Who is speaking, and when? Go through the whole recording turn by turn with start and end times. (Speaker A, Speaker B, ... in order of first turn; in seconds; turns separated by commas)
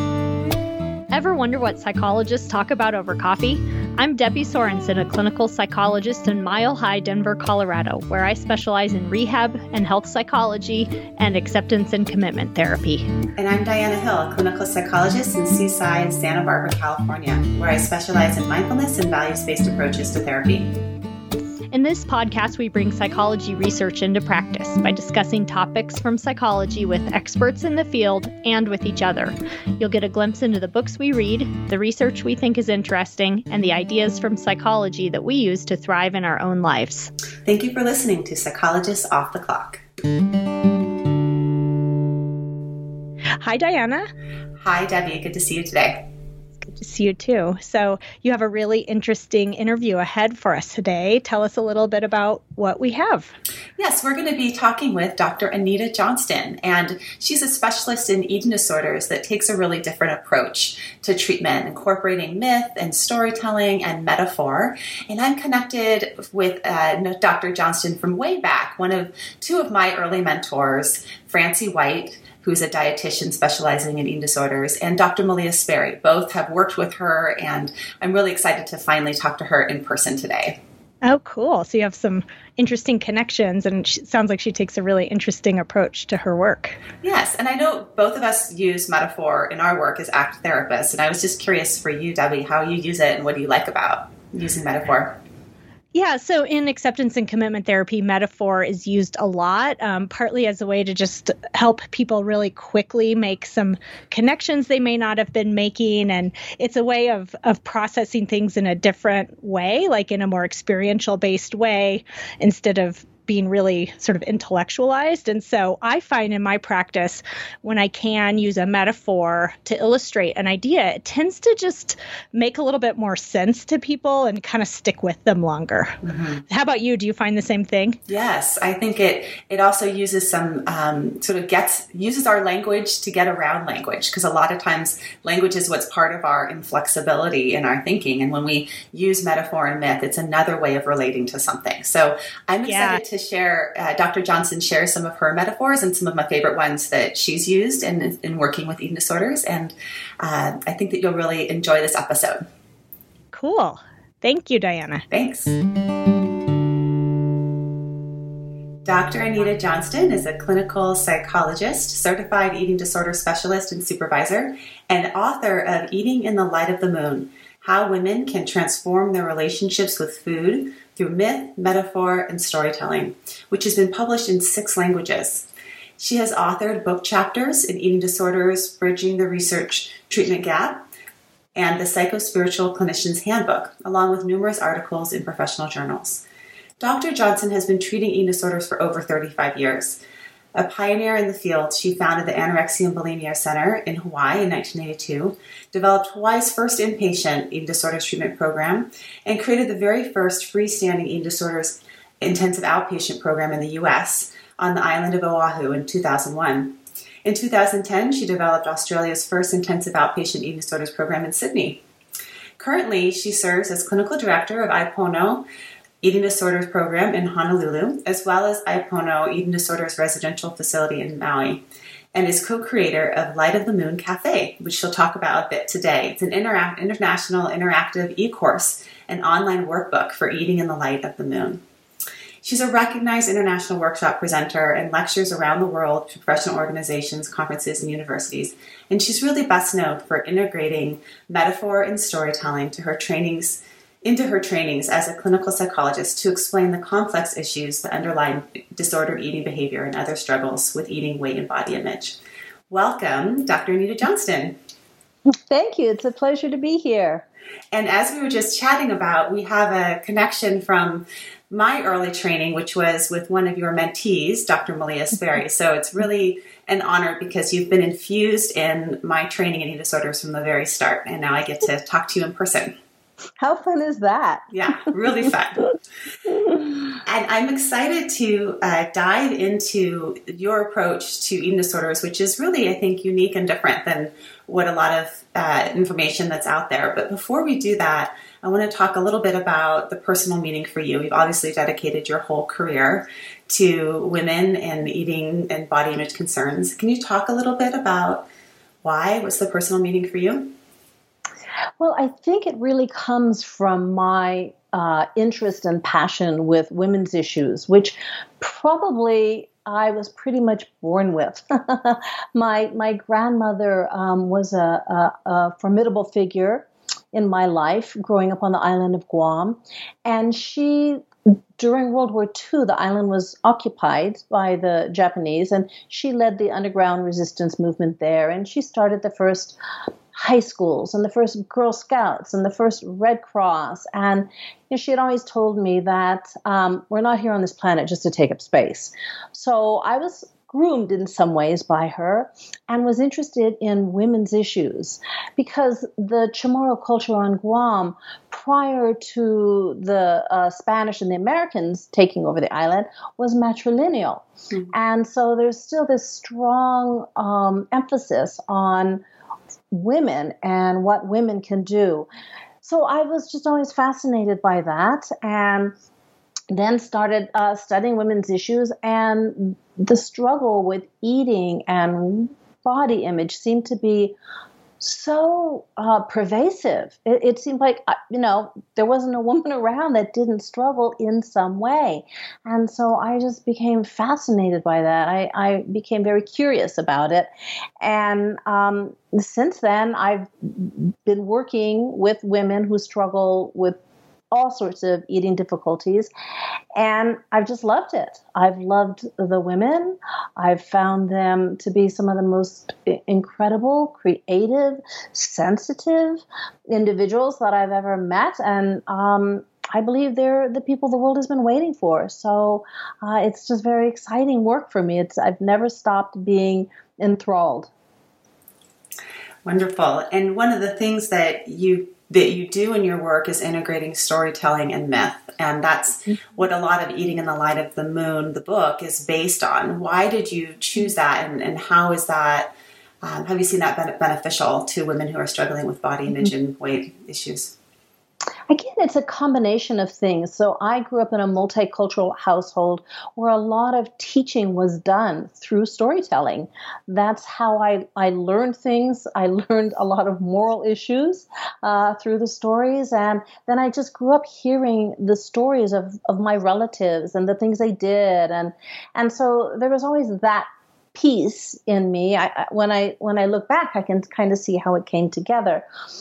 Speaker A: 1.1-13.1, Speaker B: 13.4-20.7, Speaker A: 21.7-37.1, Speaker B: 37.5-39.8, Speaker A: 43.4-44.1, Speaker B: 44.6-46.1, Speaker A: 46.8-53.3, Speaker B: 53.8-80.6, Speaker A: 81.0-86.8, Speaker B: 87.0-95.2, Speaker A: 95.9-126.0, Speaker B: 126.0-126.4, Speaker A: 126.5-128.0, Speaker B: 128.1-152.5, Speaker A: 142.7-143.0, Speaker A: 153.3-155.1, Speaker B: 155.1-155.6, Speaker B: 158.8-175.5, Speaker B: 176.0-180.8, Speaker B: 181.6-186.2, Speaker B: 186.8-190.0, Speaker B: 190.6-211.8, Speaker B: 212.6-215.4, Speaker B: 216.0-221.6, Speaker B: 222.1-231.6, Speaker B: 232.4-252.2, Speaker B: 252.7-254.6, Speaker C: 255.5-257.2, Speaker B: 257.7-272.8, Speaker C: 273.4-274.4, Speaker B: 274.5-275.8, Speaker C: 276.3-276.9, Speaker B: 277.1-298.3, Speaker B: 298.8-300.5, Speaker C: 301.8-321.1, Speaker C: 321.6-329.6, Speaker C: 330.1-359.0, Speaker C: 359.7-362.1, Speaker C: 362.6-365.8, Speaker C: 366.5-374.1, Speaker C: 374.8-387.3, Speaker C: 387.8-393.8, Speaker C: 394.3-396.1, Speaker C: 396.8-417.7, Speaker B: 419.4-437.6, Speaker C: 438.5-465.6